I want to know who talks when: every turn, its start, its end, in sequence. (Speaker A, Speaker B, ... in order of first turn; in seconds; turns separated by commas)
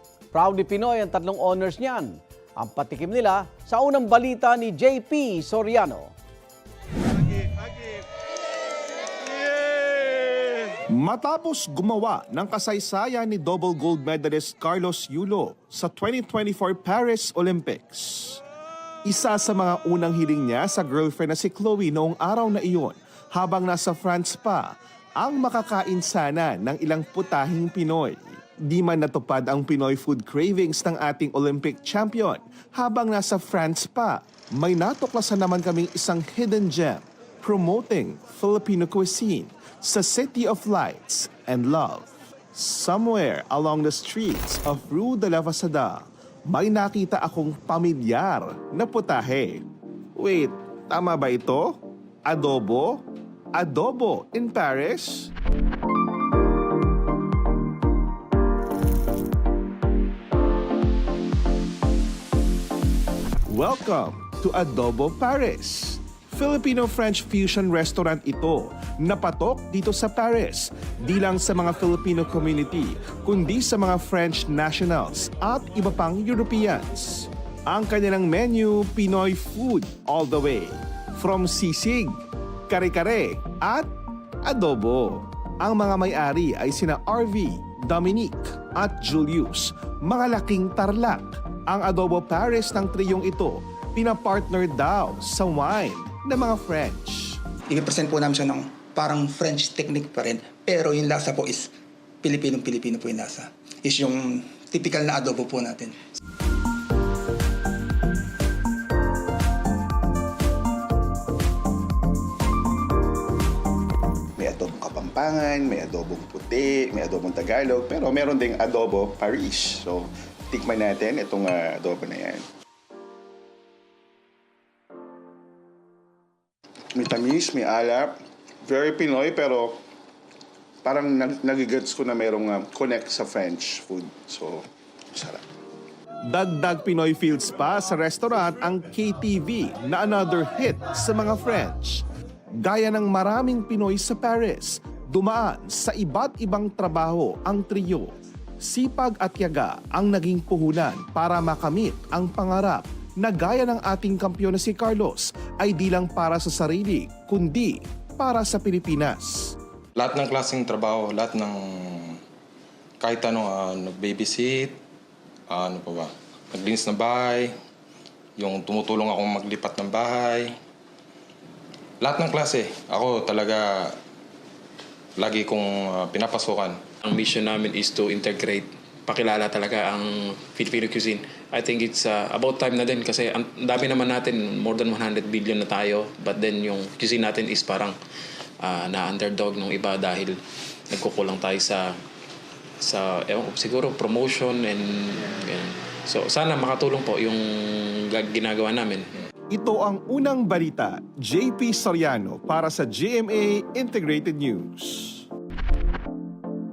Speaker A: 0.3-6.1, Speaker B: 10.8-18.4, Speaker B: 19.0-55.3, Speaker B: 63.5-83.9, Speaker B: 84.4-97.4, Speaker C: 97.7-106.0, Speaker D: 114.4-122.4, Speaker D: 126.9-129.8, Speaker D: 130.8-135.4, Speaker B: 136.3-142.0, Speaker B: 142.6-159.6, Speaker E: 160.0-162.2, Speaker E: 163.0-164.8, Speaker E: 165.5-167.5, Speaker E: 168.4-170.5, Speaker E: 172.0-173.9, Speaker E: 175.2-176.8, Speaker F: 177.0-187.9, Speaker F: 188.6-190.4, Speaker F: 190.9-191.9, Speaker F: 192.8-199.1, Speaker B: 199.5-205.2